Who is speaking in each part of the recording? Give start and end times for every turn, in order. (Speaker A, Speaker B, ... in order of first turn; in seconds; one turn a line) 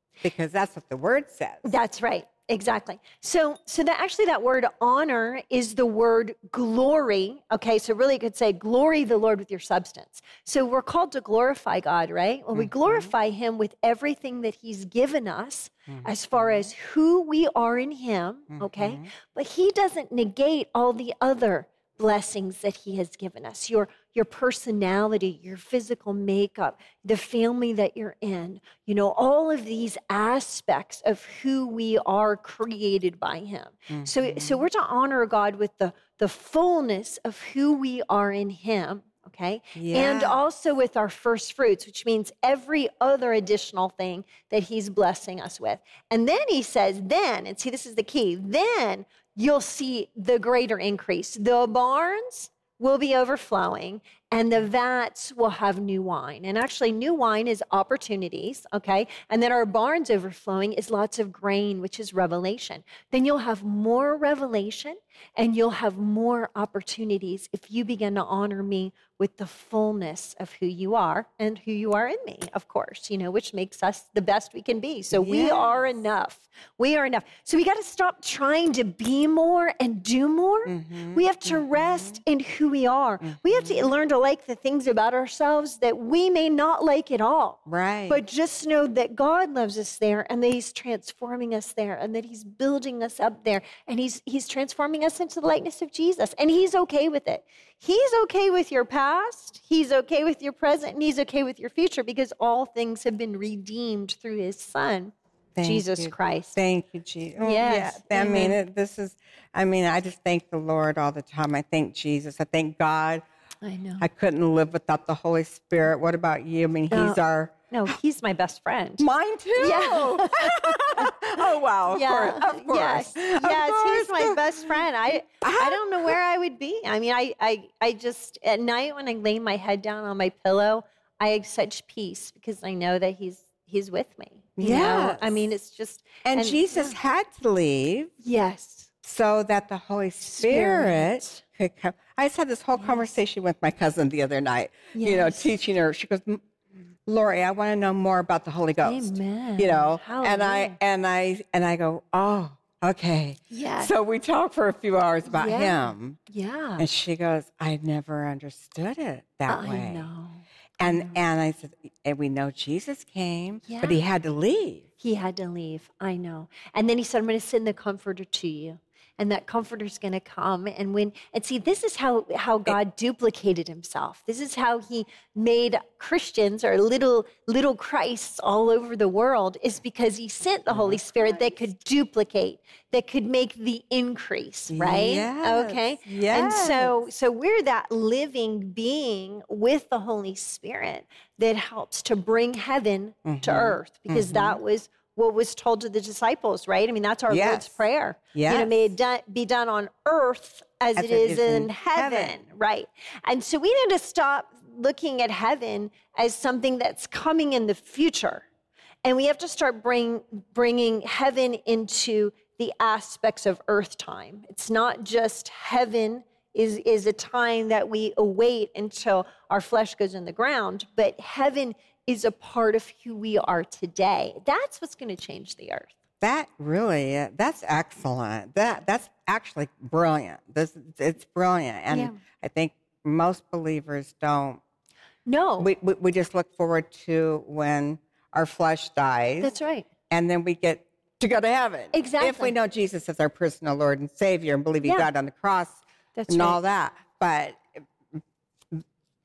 Speaker A: 0.2-1.8
Speaker B: 1.6-106.6
Speaker A: 12.6-13.1
Speaker A: 15.9-16.7
Speaker A: 18.5-19.1
Speaker A: 33.9-34.6
Speaker A: 39.8-40.4
Speaker A: 75.1-75.9
Speaker A: 80.7-82.2
Speaker A: 83.2-83.9
Speaker A: 87.7-88.2
Speaker A: 105.5-113.2
Speaker B: 107.4-108.6
Speaker B: 113.6-114.1
Speaker A: 114.0-117.5
Speaker B: 116.9-117.2
Speaker B: 117.7-119.0
Speaker A: 119.0-124.8
Speaker B: 119.6-121.1
Speaker B: 121.9-136.9
Speaker A: 125.4-126.2
Speaker A: 134.6-135.4
Speaker A: 136.2-138.1
Speaker B: 138.2-138.9
Speaker A: 139.0-146.4
Speaker B: 140.2-141.4
Speaker B: 144.9-145.5
Speaker A: 147.1-156.2
Speaker B: 148.8-150.8
Speaker B: 153.5-153.9
Speaker B: 155.3-156.9
Speaker A: 156.8-160.1
Speaker B: 159.5-161.1
Speaker A: 160.8-164.9
Speaker B: 163.7-164.0
Speaker B: 165.0-208.4
Speaker A: 180.7-181.5
Speaker A: 184.7-187.0
Speaker A: 193.2-194.6
Speaker A: 197.3-197.8
Speaker A: 198.3-198.7
Speaker A: 200.9-202.4
Speaker B: 209.0-226.0
Speaker A: 226.2-234.6
Speaker B: 231.9-232.2
Speaker B: 235.3-235.7
Speaker A: 235.6-239.6
Speaker B: 239.4-239.9
Speaker A: 240.1-247.8
Speaker B: 241.9-242.5
Speaker B: 244.8-245.1
Speaker B: 246.2-246.6